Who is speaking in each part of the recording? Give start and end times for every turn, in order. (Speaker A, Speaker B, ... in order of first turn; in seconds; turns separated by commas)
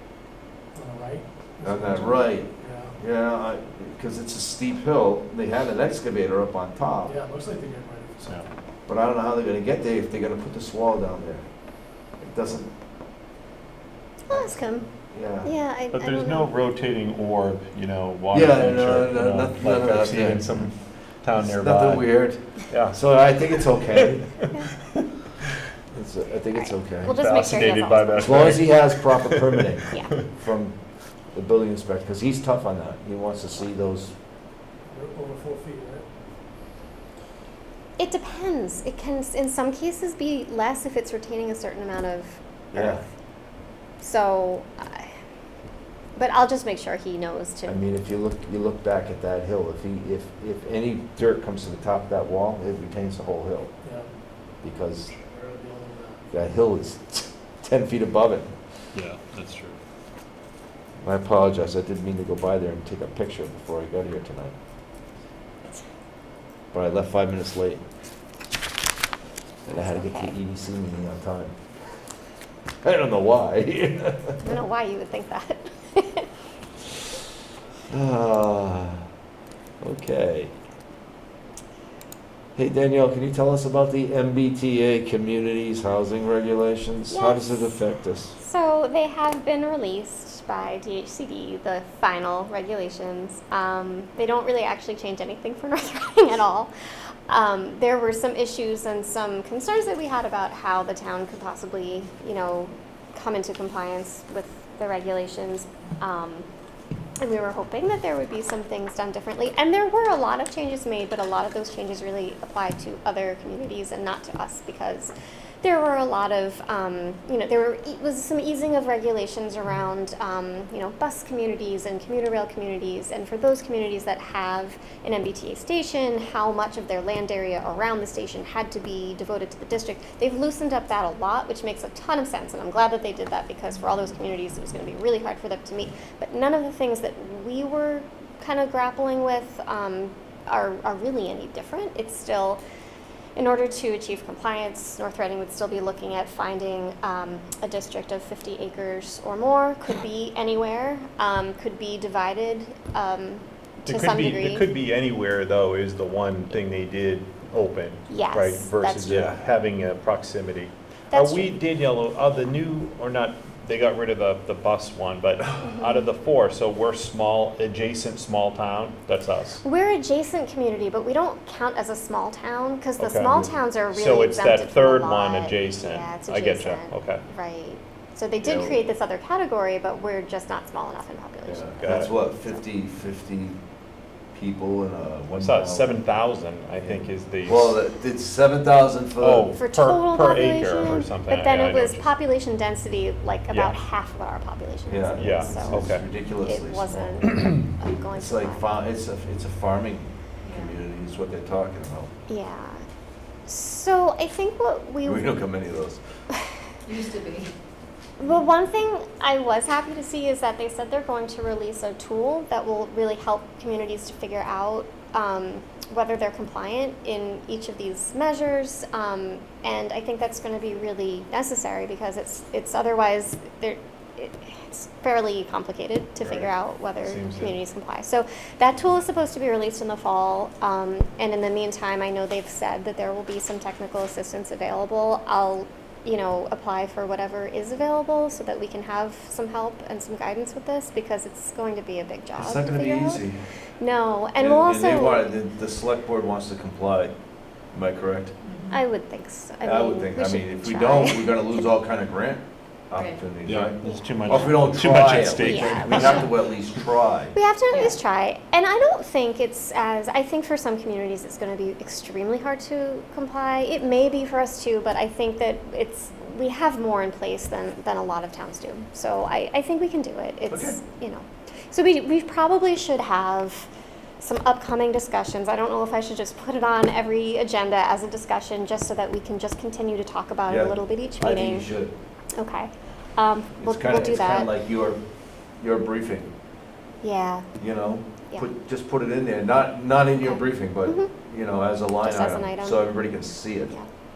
Speaker A: 0.7-2.9, Speaker B: 1.6-7.1, Speaker A: 7.0-8.4, Speaker C: 8.2-8.5, Speaker B: 8.9-11.5, Speaker B: 12.2-12.7, Speaker D: 14.3-14.9, Speaker B: 15.1-15.5, Speaker D: 15.4-16.5, Speaker C: 15.9-24.6, Speaker B: 18.3-20.6, Speaker B: 21.3-24.3, Speaker B: 25.9-27.2, Speaker D: 26.5-28.2, Speaker C: 27.1-30.2, Speaker B: 28.2-30.8, Speaker B: 31.3-34.1, Speaker A: 34.9-36.1, Speaker D: 38.0-43.0, Speaker B: 42.7-43.0, Speaker D: 44.0-45.1, Speaker D: 46.1-47.8, Speaker B: 47.6-53.7, Speaker A: 53.8-56.3, Speaker B: 54.6-55.1, Speaker B: 56.3-58.5, Speaker C: 58.9-59.8, Speaker B: 61.0-64.5, Speaker B: 66.7-67.8, Speaker D: 69.7-70.3, Speaker B: 69.7-71.6, Speaker B: 72.8-74.6, Speaker D: 74.4-76.3, Speaker B: 77.9-79.0, Speaker B: 79.8-80.5, Speaker B: 82.5-88.4, Speaker D: 87.1-87.7, Speaker D: 88.4-96.7, Speaker D: 97.3-106.5, Speaker D: 107.2-142.6, Speaker D: 143.3-154.7, Speaker C: 153.9-169.6, Speaker D: 158.1-159.1, Speaker B: 159.0-159.4, Speaker D: 161.1-161.5, Speaker D: 165.6-166.1, Speaker D: 169.6-182.6, Speaker C: 173.0-173.3, Speaker C: 173.9-177.2, Speaker B: 178.4-178.8, Speaker B: 181.4-183.6, Speaker C: 181.7-182.2, Speaker B: 184.3-185.9, Speaker C: 185.4-187.8, Speaker B: 186.8-189.5, Speaker C: 189.2-192.1, Speaker D: 189.6-195.8, Speaker C: 193.5-193.8, Speaker B: 194.9-197.2, Speaker C: 195.1-196.1, Speaker D: 196.4-198.7, Speaker C: 197.4-197.7, Speaker B: 198.1-202.1, Speaker E: 200.4-200.8, Speaker D: 202.3-202.8, Speaker D: 203.5-205.3, Speaker B: 205.0-206.0, Speaker E: 206.8-207.5, Speaker D: 208.2-243.2, Speaker C: 226.2-227.6, Speaker B: 242.4-243.4, Speaker D: 243.8-245.3, Speaker B: 244.4-247.1, Speaker B: 247.7-248.3, Speaker E: 248.4-248.8, Speaker D: 248.7-251.7, Speaker B: 249.6-257.4, Speaker E: 252.9-253.2, Speaker C: 253.4-256.4, Speaker D: 253.8-254.5, Speaker D: 255.4-256.3, Speaker D: 257.3-281.7, Speaker E: 257.7-258.0, Speaker B: 270.5-270.8, Speaker B: 280.5-281.9, Speaker D: 282.4-284.5, Speaker B: 283.6-285.0, Speaker B: 285.6-286.3, Speaker D: 287.0-287.5, Speaker B: 287.6-293.7, Speaker D: 290.2-291.1, Speaker D: 292.0-292.8